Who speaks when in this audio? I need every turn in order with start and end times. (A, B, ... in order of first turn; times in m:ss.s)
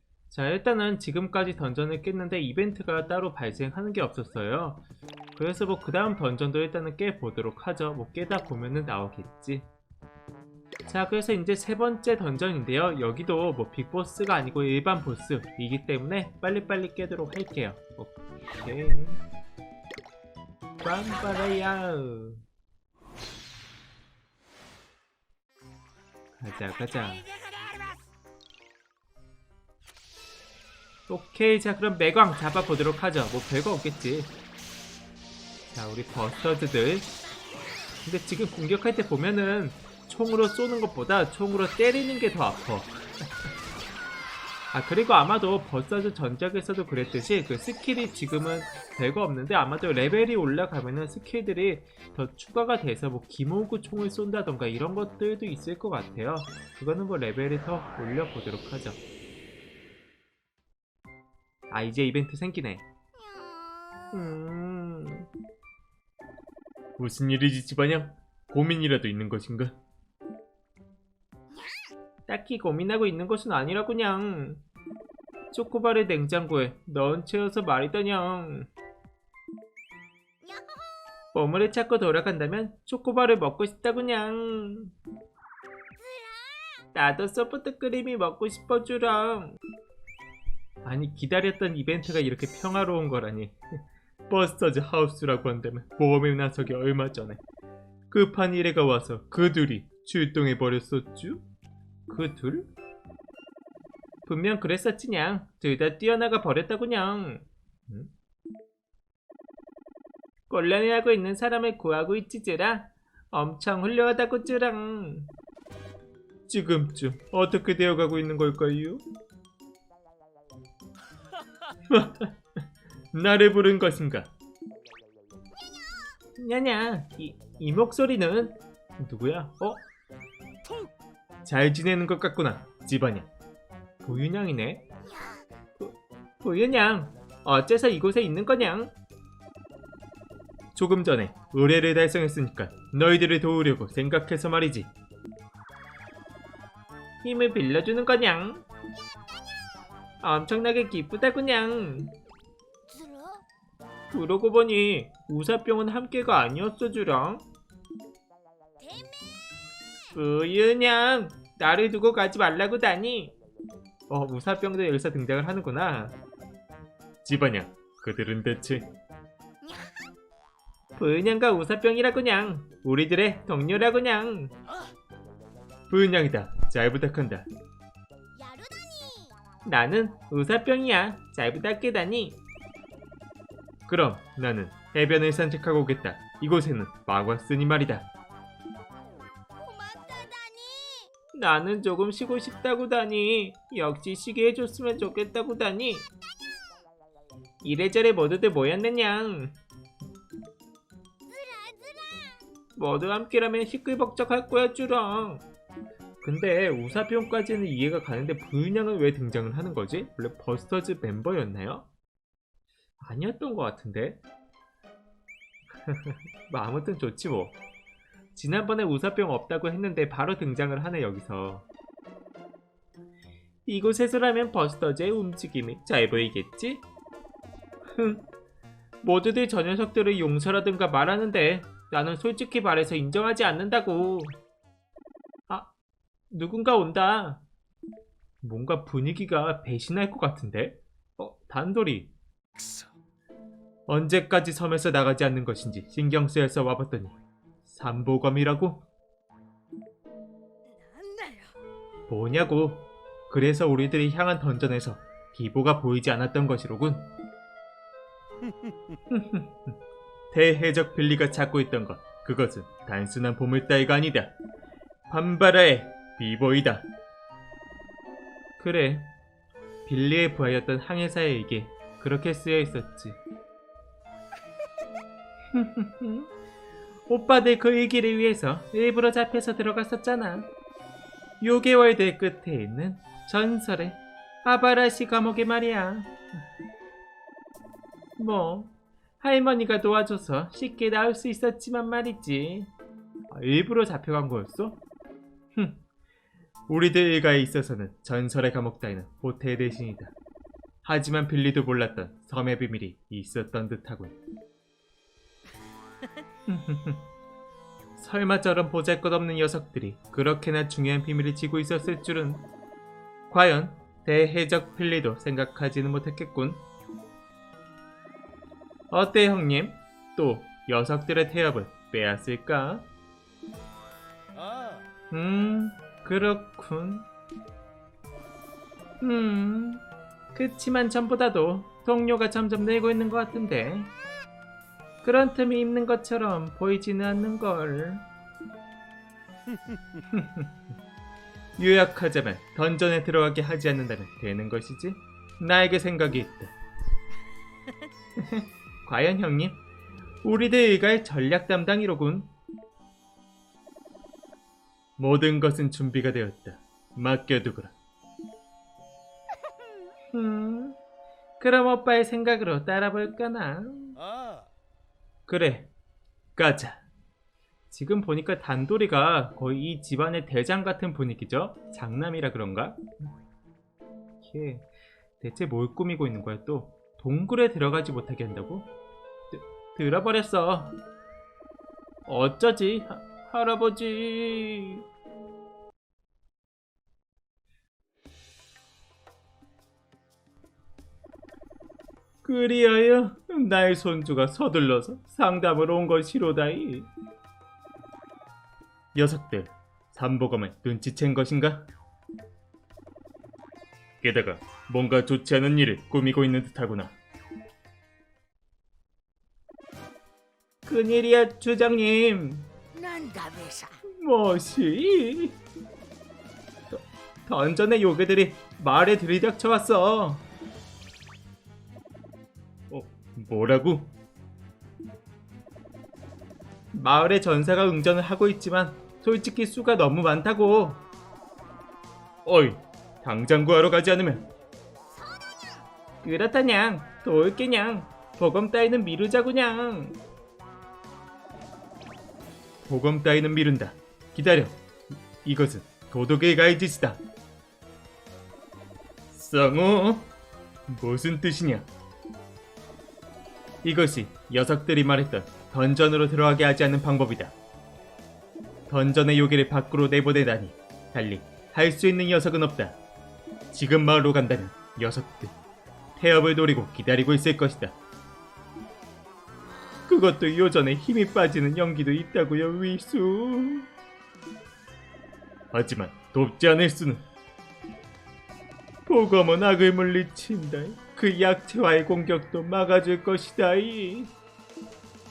0:00.3-0:04.8 A
0:05.4-0:09.7 A
0:10.9-0:19.2 A
0:20.8-0:22.4 A
0:26.4-0:27.3 A
0:31.1-0:34.3 A
0:35.7-0:37.1 A
0:38.0-0:42.9 A
0:44.7-0:59.0 A
1:01.7-1:02.8 A
1:03.2-1:04.2 B
1:04.1-1:05.3 A
1:07.0-1:09.8 A
1:12.3-1:14.6 A
1:15.5-1:18.7 A
1:20.4-1:21.0 B
1:21.3-1:24.9 A
1:26.0-1:26.8 B
1:26.9-1:29.6 A
1:30.8-1:33.6 A
1:34.3-1:37.4 A
1:38.1-1:41.4 A
1:42.1-1:42.7 A
1:44.3-1:48.1 A
1:50.5-1:55.3 A
1:56.5-1:59.0 A
2:01.9-2:02.4 A
2:03.1-2:04.3 A
2:06.4-2:09.8 A
2:11.4-2:13.3 A
2:14.0-2:14.8 A
2:15.8-2:18.9 A
2:20.8-2:24.9 A
2:27.2-2:28.6 A
2:30.2-2:32.2 A
2:32.9-2:33.4 B
2:34.1-2:37.4 A
2:38.8-2:39.2 B
2:40.1-2:43.3 A
2:44.1-2:46.2 A
2:47.2-2:48.9 A
2:49.6-2:50.1 B
2:51.0-2:54.5 A
2:55.9-2:57.5 A
2:58.4-2:59.4 B
2:59.6-3:02.4 A
3:03.9-3:08.1 A
3:09.6-3:11.1 B
3:11.3-3:16.1 A
3:17.6-3:19.6 A
3:21.3-3:22.2 B
3:22.8-3:25.4 A
3:26.2-3:31.9 A
3:33.0-3:34.2 A
3:35.8-3:37.6 A
3:38.4-3:41.7 A
3:43.7-3:46.8 A
3:47.9-3:48.3 A
3:49.0-3:54.4 A
3:56.3-3:57.4 A
3:58.4-4:02.1 A
4:03.9-4:08.8 A
4:10.7-4:11.5 B
4:12.1-4:17.1 A
4:19.1-4:19.7 A
4:20.3-4:24.3 A
4:25.1-4:26.8 A
4:28.6-4:29.1 A
4:29.9-4:33.2 A
4:35.5-4:36.3 A
4:37.1-4:40.5 A
4:41.4-4:46.2 A
4:48.2-4:52.7 A
4:53.3-4:54.8 A
4:55.6-4:55.8 A
4:56.7-5:00.2 A
5:00.8-5:04.2 A
5:06.5-5:07.1 A
5:08.0-5:12.5 A
5:13.3-5:16.6 A
5:18.9-5:22.9 A
5:25.1-5:27.1 A
5:29.0-5:33.9 A
5:35.0-5:38.0 A
5:40.1-5:40.5 A
5:41.6-5:46.5 A
5:48.2-5:49.6 A
5:50.2-5:52.3 A
5:55.0-5:57.7 A
6:00.1-6:00.8 A
6:01.4-6:04.0 A
6:05.3-6:05.7 A
6:06.4-6:06.8 A
6:07.7-6:12.8 A
6:14.2-6:18.7 A
6:19.3-6:20.8 A
6:22.1-6:24.8 A
6:32.2-6:36.9 A
6:38.9-6:41.7 A
6:44.0-6:47.0 A
6:50.7-6:52.5 A
6:52.8-6:53.8 B
6:53.8-6:55.4 A
6:56.7-7:00.2 A
7:02.7-7:03.9 A
7:06.7-7:10.8 A
7:12.2-7:14.3 A
7:14.9-7:15.6 B
7:16.0-7:20.0 A
7:22.6-7:24.6 A
7:25.2-7:27.0 A
7:29.1-7:30.1 A
7:30.7-7:31.7 A
7:33.6-7:37.4 A
7:38.7-7:42.8 A
7:43.5-7:45.4 A
7:46.0-7:47.8 A
7:49.9-7:53.7 A
7:55.5-7:57.0 A
7:58.9-8:04.1 A